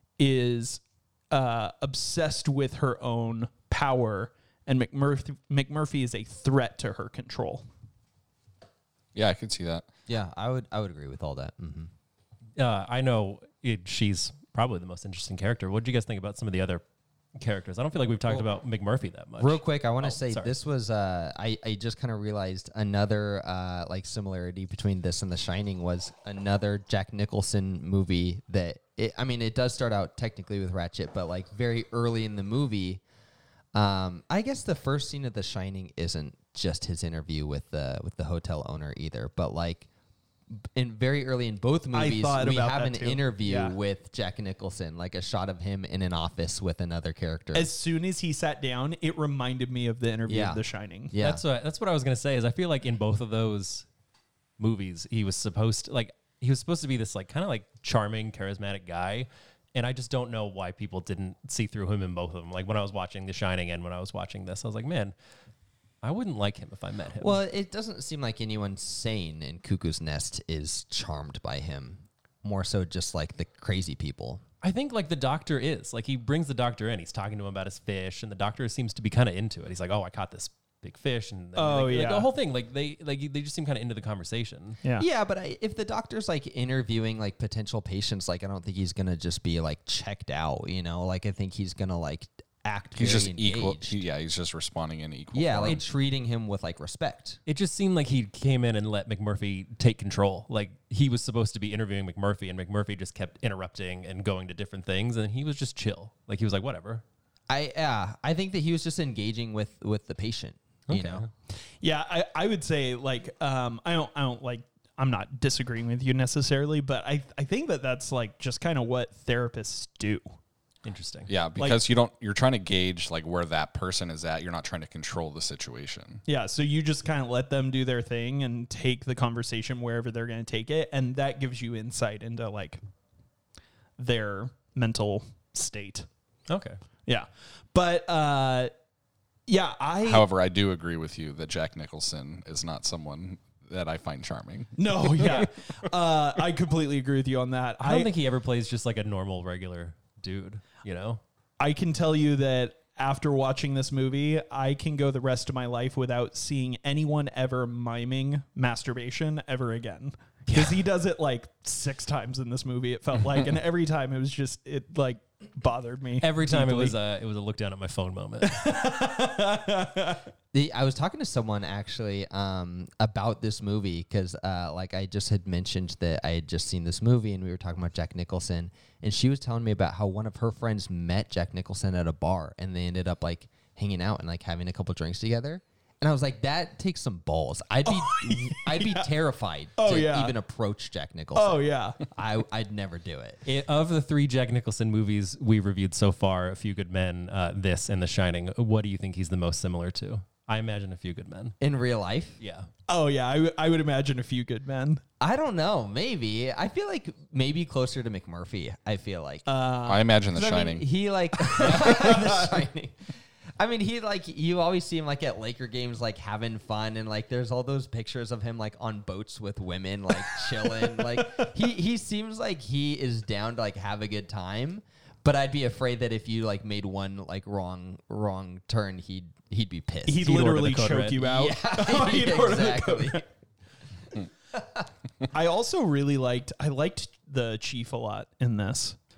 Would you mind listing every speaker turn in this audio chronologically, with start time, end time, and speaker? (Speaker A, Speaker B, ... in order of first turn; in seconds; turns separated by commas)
Speaker A: 0.2-7.6, Speaker B: 9.1-9.9, Speaker C: 10.1-11.9, Speaker D: 12.6-16.8, Speaker D: 17.4-20.5, Speaker C: 19.4-33.0, Speaker C: 33.7-39.9, Speaker C: 40.5-47.7, Speaker A: 41.9-43.7, Speaker A: 47.5-51.1, Speaker C: 50.3-51.4, Speaker D: 51.2-53.9, Speaker D: 54.6-65.1, Speaker D: 66.0-67.4, Speaker C: 67.2-74.4, Speaker D: 74.6-84.8, Speaker A: 81.5-82.3, Speaker C: 85.0-94.0, Speaker B: 93.0-95.8, Speaker C: 95.3-97.4, Speaker D: 97.5-107.0, Speaker C: 107.5-111.2, Speaker D: 110.9-111.3, Speaker A: 111.8-120.2, Speaker D: 120.8-121.3, Speaker B: 121.3-126.2, Speaker A: 126.2-132.8, Speaker A: 134.0-136.1, Speaker D: 136.5-136.8, Speaker A: 137.1-138.7, Speaker A: 139.5-140.2, Speaker B: 140.0-145.5, Speaker A: 144.8-148.1, Speaker D: 147.8-151.2, Speaker A: 151.6-166.9, Speaker D: 160.5-160.8, Speaker D: 166.2-168.6, Speaker A: 168.4-170.2, Speaker C: 170.5-193.4, Speaker A: 187.9-189.1, Speaker A: 189.8-190.3, Speaker A: 191.3-192.0, Speaker D: 193.4-201.6, Speaker C: 201.6-202.4, Speaker D: 202.4-202.7, Speaker A: 202.9-205.0, Speaker C: 205.2-209.4, Speaker A: 209.5-210.1, Speaker B: 209.8-210.9, Speaker C: 210.3-213.0, Speaker A: 211.4-212.6, Speaker C: 213.6-230.4, Speaker A: 220.8-221.3, Speaker A: 230.1-233.2, Speaker D: 230.2-231.2, Speaker C: 231.2-233.2, Speaker C: 234.5-234.9, Speaker A: 235.3-238.9